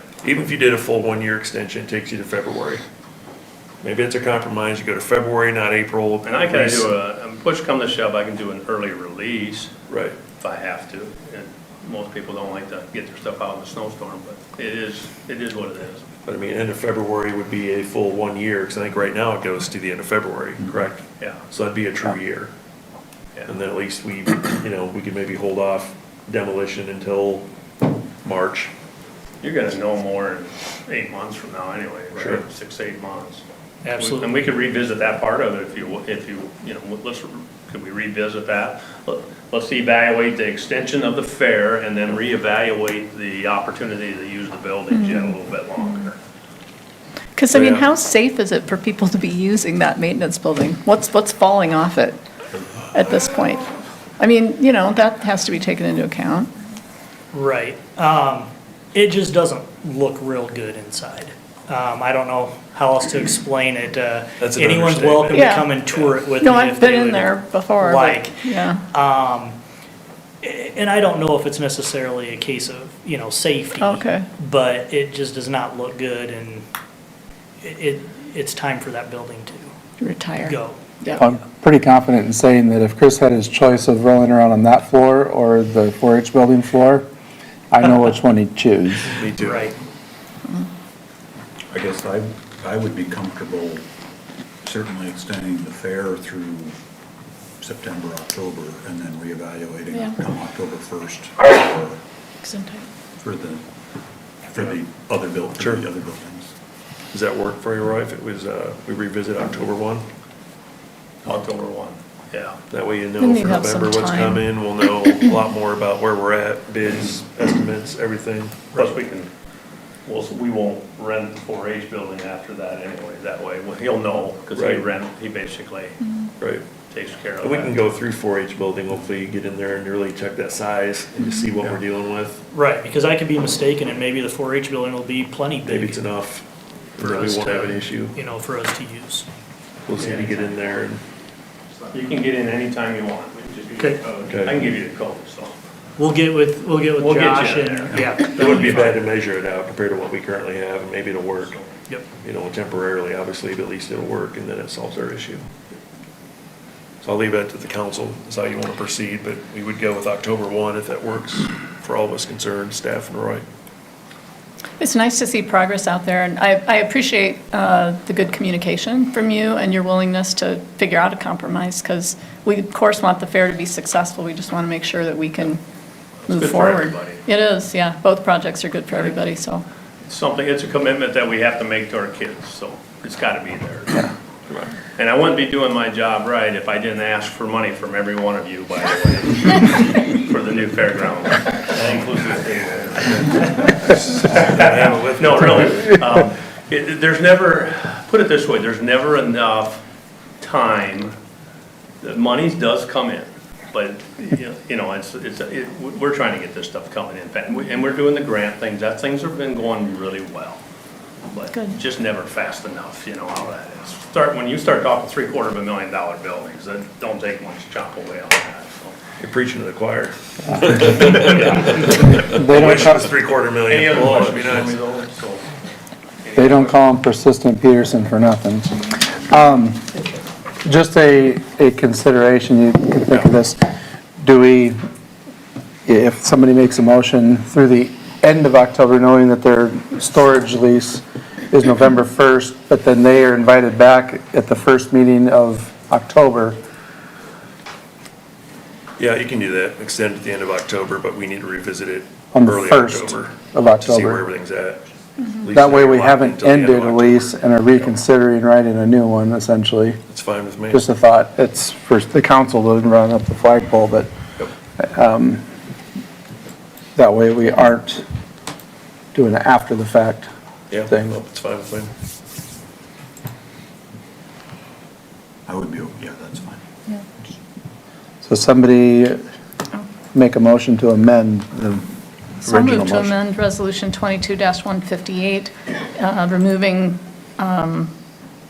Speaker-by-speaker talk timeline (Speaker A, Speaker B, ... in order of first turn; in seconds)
Speaker A: 0.2-2.8, 3.8-6.9, 9.9-10.2, 16.2-22.5, 23.5-27.5, 28.2-28.7, 32.1-32.4, 47.5-47.8, 64.4-66.2, 89.1-89.7, 105.6-105.9, 107.1-110.1, 112.7-118.9, 124.5-124.9, 127.4-132.4, 135.7-136.4, 137.0-138.2, 139.9-141.0, 144.3-144.6, 148.2-151.6, 152.2-155.4, 157.0-163.4, 193.9-195.9, 219.2-224.7, 249.0-257.9, 260.1-260.9, 270.7-271.9
Speaker B: 6.2-9.7, 10.4-16.1, 29.4-33.4, 34.0-46.2, 111.2-112.6, 118.7-119.3, 120.0-126.0, 126.9-127.8, 141.9-145.6, 147.0-148.5, 176.3-177.3, 180.1-184.1, 185.0-199.8, 200.4-201.2, 202.0-210.6, 211.3-219.0, 223.7-225.5, 226.2-226.8
Speaker C: 33.8-34.3, 57.3-69.6, 70.4-76.7, 77.6-79.7, 80.4-81.3, 89.4-89.8, 132.5-136.1, 137.0-139.3, 143.8-144.0, 146.0-149.0
Speaker D: 44.9-45.3, 47.4-52.2, 52.9-56.5, 65.3-65.7, 66.3-68.8, 73.8-74.3, 80.0-81.2, 99.9-100.2, 102.4-102.9, 113.2-114.5, 164.8-175.6, 176.3-179.6, 282.4-287.9
Speaker E: 81.2-87.1, 87.7-89.2, 221.3-223.1, 226.3-229.9, 230.6-233.6, 234.2-234.8, 235.9-246.6, 252.3-254.2, 255.5-260.0, 260.7-264.1, 264.8-265.4, 266.9-268.0, 269.1-270.3, 270.9-271.2, 278.2-279.2, 280.1-281.9, 282.4-283.1
Speaker F: 91.7-93.8, 94.6-96.8, 97.6-102.0, 103.2-103.6, 104.5-106.5, 275.5-276.6